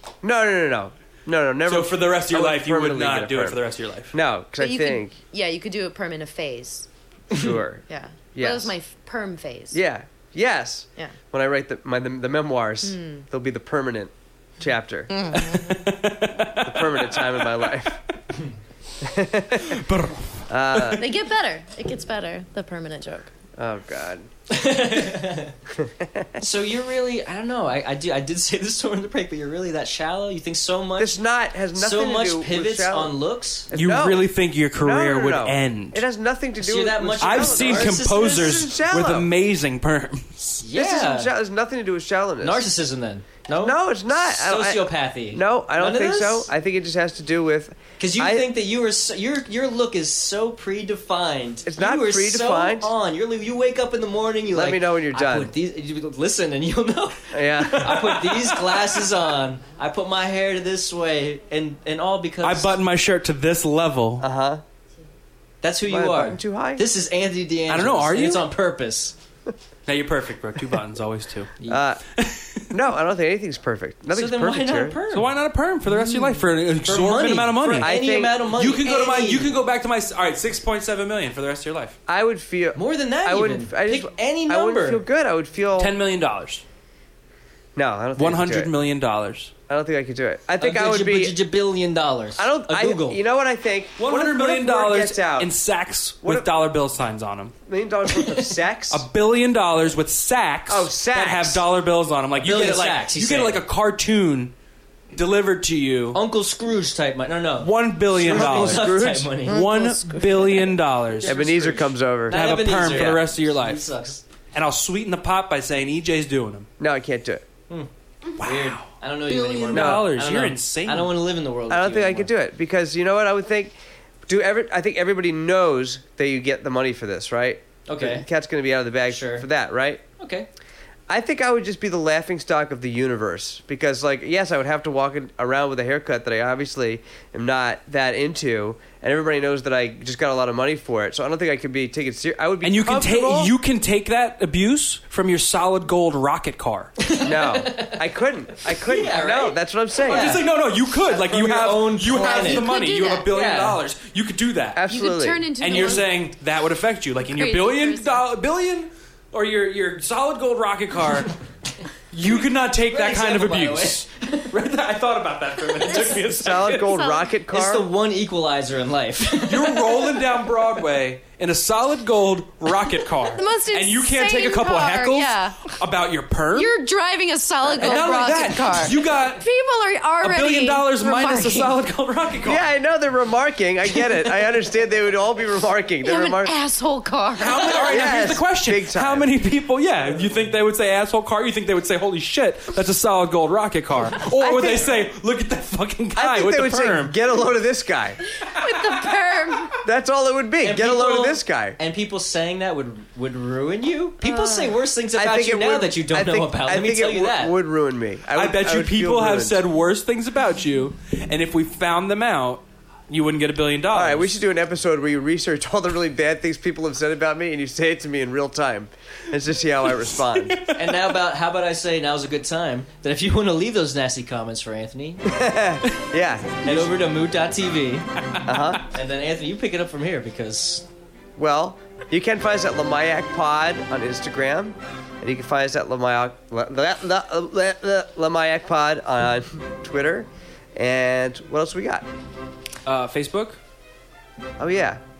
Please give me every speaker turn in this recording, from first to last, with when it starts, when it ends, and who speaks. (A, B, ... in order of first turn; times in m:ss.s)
0:00.2-0:03.6 A
0:01.7-0:04.2 B
0:04.1-0:05.1 A
0:04.6-0:06.9 C
0:07.3-0:07.8 A
0:07.9-0:09.8 C
0:08.3-0:08.7 A
0:09.7-0:15.3 A
0:12.8-0:13.2 C
0:15.1-0:15.7 C
0:15.3-0:17.8 B
0:16.6-0:18.0 A
0:19.0-0:19.8 A
0:19.6-0:21.1 B
0:20.5-0:21.1 A
0:20.9-0:23.3 C
0:23.6-0:24.3 A
0:24.5-0:25.5 D
0:25.7-0:26.4 A
0:26.4-0:31.2 D
0:31.0-0:33.2 A
0:31.8-0:33.7 D
0:33.7-0:39.3 A
0:33.7-0:36.0 B
0:36.6-0:38.7 D
0:37.2-0:40.6 B
0:40.6-0:41.3 D
0:40.7-0:42.6 A
0:42.4-0:46.5 D
0:43.6-0:48.5 A
0:48.0-1:02.7 D
0:51.6-0:52.9 A
0:54.5-0:55.5 A
0:57.3-0:58.2 A
0:57.9-0:58.9 B
1:02.4-1:04.3 B
1:04.2-1:04.6 A
1:05.6-1:09.1 D
1:05.8-1:06.8 A
1:07.7-1:08.5 B
1:09.9-1:11.5 B
1:11.7-1:12.0 A
1:12.1-1:12.7 B
1:12.7-1:15.0 A
1:14.1-1:15.3 D
1:15.1-1:22.0 B
1:16.2-1:16.4 C
1:16.8-1:19.6 D
1:17.8-1:18.4 A
1:22.1-1:25.9 A
1:22.7-1:25.0 D
1:25.8-1:26.6 B
1:27.8-1:28.7 A
1:28.2-1:29.5 B
1:29.7-1:31.4 A
1:30.6-1:33.2 D
1:32.4-1:35.5 A
1:34.0-1:37.5 B
1:36.2-1:36.5 A
1:37.6-1:39.0 A
1:38.9-1:44.5 B
1:40.7-1:41.6 A
1:42.4-1:43.6 D
1:45.1-1:46.2 B
1:46.1-1:49.6 D
1:47.6-1:51.4 B
1:48.2-1:49.1 A
1:49.5-1:50.7 C
1:51.2-1:54.2 D
1:51.2-1:53.1 A
1:52.3-1:53.8 B
1:54.5-1:56.7 B
1:56.8-1:57.4 A
1:57.7-2:02.3 D
1:58.4-2:01.1 B
1:59.3-1:59.6 C
1:59.7-2:00.1 A
2:01.7-2:03.8 A
2:04.3-2:10.0 A
2:07.9-2:08.2 D
2:09.1-2:09.4 D
2:10.2-2:10.5 D
2:11.1-2:23.5 A
2:22.6-2:26.9 B
2:27.0-2:28.0 D
2:27.2-2:30.4 A
2:28.6-2:32.7 D
2:30.0-2:34.8 B
2:32.1-2:33.3 C
2:33.3-2:33.8 D
2:34.7-2:35.5 A
2:34.9-2:36.1 C
2:35.6-2:41.3 B
2:37.2-2:38.2 C
2:42.1-2:47.1 B
2:42.9-2:44.5 D
2:45.8-2:46.2 D
2:46.2-2:47.9 A
2:46.7-2:47.3 C
2:47.5-2:50.2 D
2:49.4-2:56.7 B
2:53.2-2:55.7 C
2:56.5-3:01.8 C
2:57.7-2:59.4 B
3:00.2-3:02.7 B
3:02.4-3:06.6 A
3:06.0-3:08.0 C
3:07.4-3:17.2 B
3:07.8-3:09.3 A
3:14.3-3:15.0 A
3:16.2-3:18.2 A
3:18.4-3:19.8 C
3:19.8-3:21.8 A
3:20.6-3:27.6 D
3:24.2-3:24.8 C
3:25.1-3:29.6 A
3:28.3-3:34.3 B
3:33.9-3:40.6 A
3:40.3-3:41.2 B
3:40.7-3:45.2 D
3:45.3-3:47.0 A
3:46.6-3:48.1 D
3:48.3-3:48.8 B
3:48.4-3:48.8 A
3:48.8-3:50.8 D
3:51.4-4:02.1 A
4:02.8-4:03.6 B
4:04.6-4:05.0 A